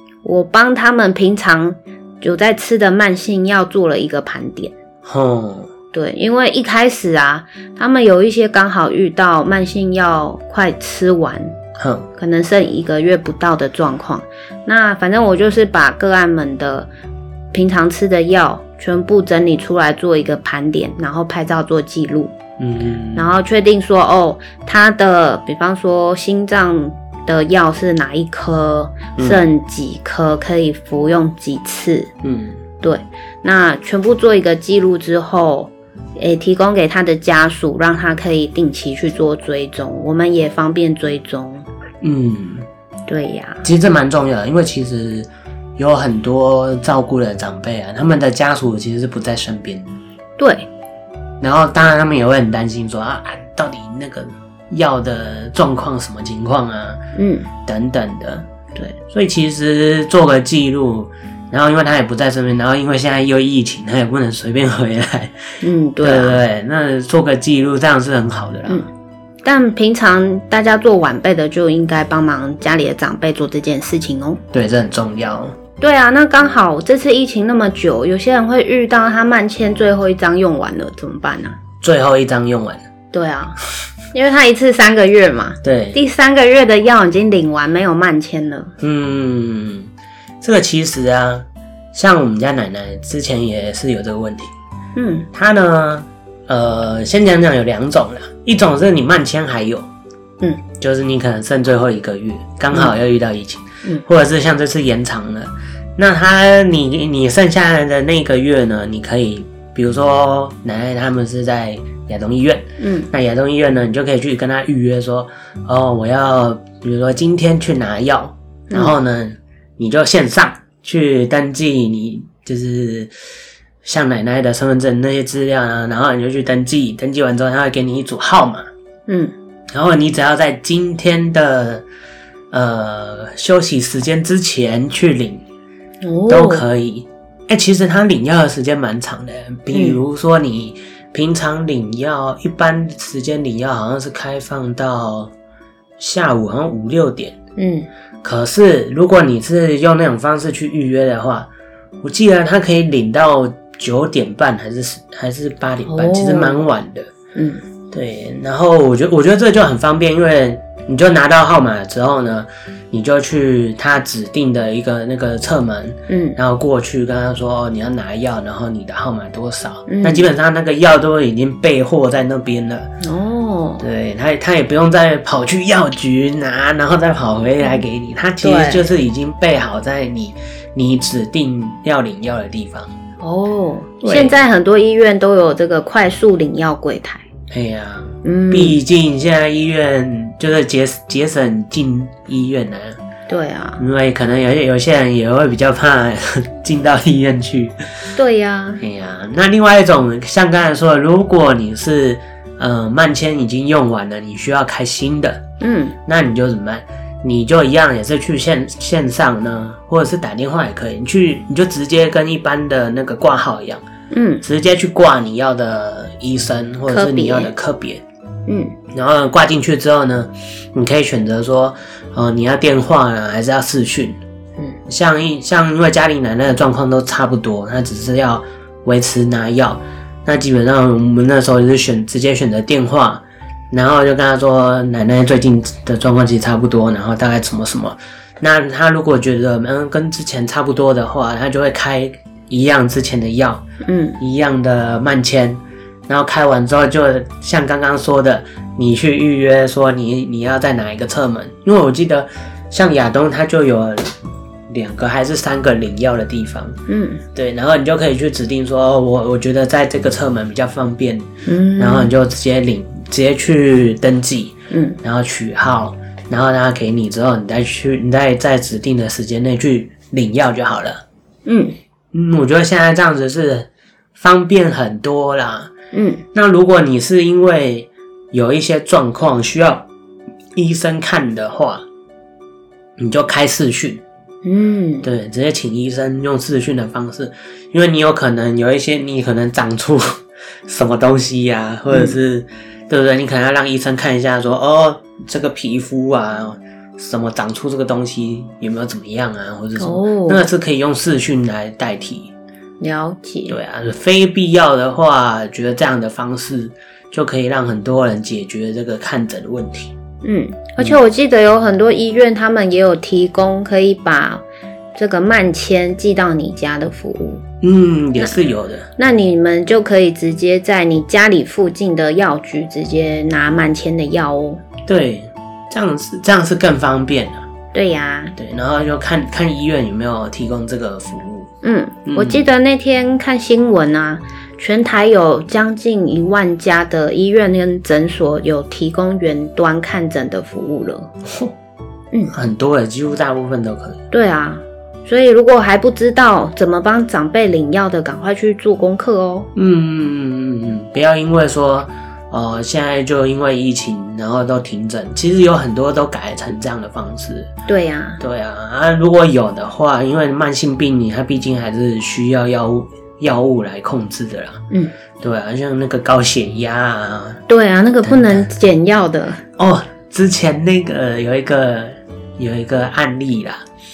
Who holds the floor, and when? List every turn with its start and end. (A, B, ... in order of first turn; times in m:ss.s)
0:00.2-0:04.7 A
0:05.0-0:05.7 B
0:05.9-0:11.6 A
0:11.8-0:12.1 B
0:12.2-0:16.9 A
0:17.5-0:22.4 A
0:22.6-0:23.3 B
0:23.2-0:32.1 A
0:29.2-0:29.4 B
0:32.2-0:32.6 B
0:32.8-0:41.6 A
0:42.0-0:42.7 B
0:43.1-0:43.7 A
0:43.6-0:50.0 B
0:50.4-0:50.7 A
0:51.4-0:57.0 B
0:57.2-0:57.5 A
0:57.6-0:58.5 B
0:59.1-1:08.9 B
1:05.6-1:06.4 A
1:09.4-1:14.4 A
1:14.5-1:15.6 B
1:15.8-1:21.6 A
1:21.8-1:22.8 B
1:23.1-1:23.6 A
1:24.1-1:28.7 A
1:25.6-1:26.0 B
1:28.8-1:29.9 B
1:30.4-1:34.5 B
1:35.0-1:35.3 A
1:35.3-1:39.9 B
1:40.8-2:03.2 B
1:52.8-1:53.1 A
2:03.8-2:08.7 B
2:09.1-2:09.3 A
2:09.7-2:11.8 B
2:12.5-2:15.4 B
2:16.0-2:16.6 A
2:16.3-2:25.3 B
2:19.7-2:20.0 A
2:26.0-2:27.4 B
2:27.6-2:27.9 A
2:28.2-2:31.5 B
2:32.0-2:37.1 B
2:35.9-2:36.6 A
2:37.4-2:37.6 A
2:37.9-2:52.9 B
2:46.1-2:46.4 A
2:49.9-2:50.3 A
2:53.0-2:53.8 A
2:53.8-3:02.9 B
2:58.4-2:58.9 A
3:03.2-3:07.3 A
3:04.0-3:04.4 B
3:07.5-3:13.0 B
3:08.2-3:08.8 A
3:13.3-3:13.8 A
3:13.8-3:18.1 B
3:18.2-3:18.8 A
3:18.8-3:25.4 B
3:25.6-3:26.0 A
3:26.1-3:33.8 B
3:34.1-3:34.4 A
3:34.4-3:38.0 B
3:36.9-3:37.5 A
3:38.5-3:38.8 A
3:38.9-3:44.2 B
3:44.9-4:03.6 B
4:03.8-4:04.2 A
4:04.2-4:14.2 B
4:14.7-4:16.8 B
4:16.9-4:17.2 A
4:17.4-4:31.0 B
4:21.5-4:22.1 A
4:24.7-4:25.0 A
4:31.5-4:31.8 A
4:32.1-4:35.7 B
4:35.9-4:36.2 A
4:36.3-4:39.9 B
4:40.6-4:41.8 B
4:43.0-4:44.0 B
4:44.4-4:45.1 A
4:45.0-5:02.3 B
4:51.9-4:52.2 A
4:59.8-5:00.4 A
5:02.8-5:03.6 A
5:03.5-5:09.9 B
5:10.2-5:14.4 A
5:15.0-5:17.4 A
5:17.6-5:18.9 B
5:19.0-5:24.6 A
5:24.9-5:27.5 B
5:27.7-5:28.4 A
5:28.4-5:31.5 B
5:31.6-5:41.1 A
5:32.1-5:32.4 B
5:41.2-5:41.5 B
5:42.3-5:44.0 B
5:44.1-5:49.5 A
5:49.6-5:57.5 B
5:57.7-5:58.2 A
5:58.2-6:04.6 B
6:05.2-6:07.4 B
6:07.5-6:09.4 A
6:08.0-6:08.5 B
6:09.6-6:13.6 B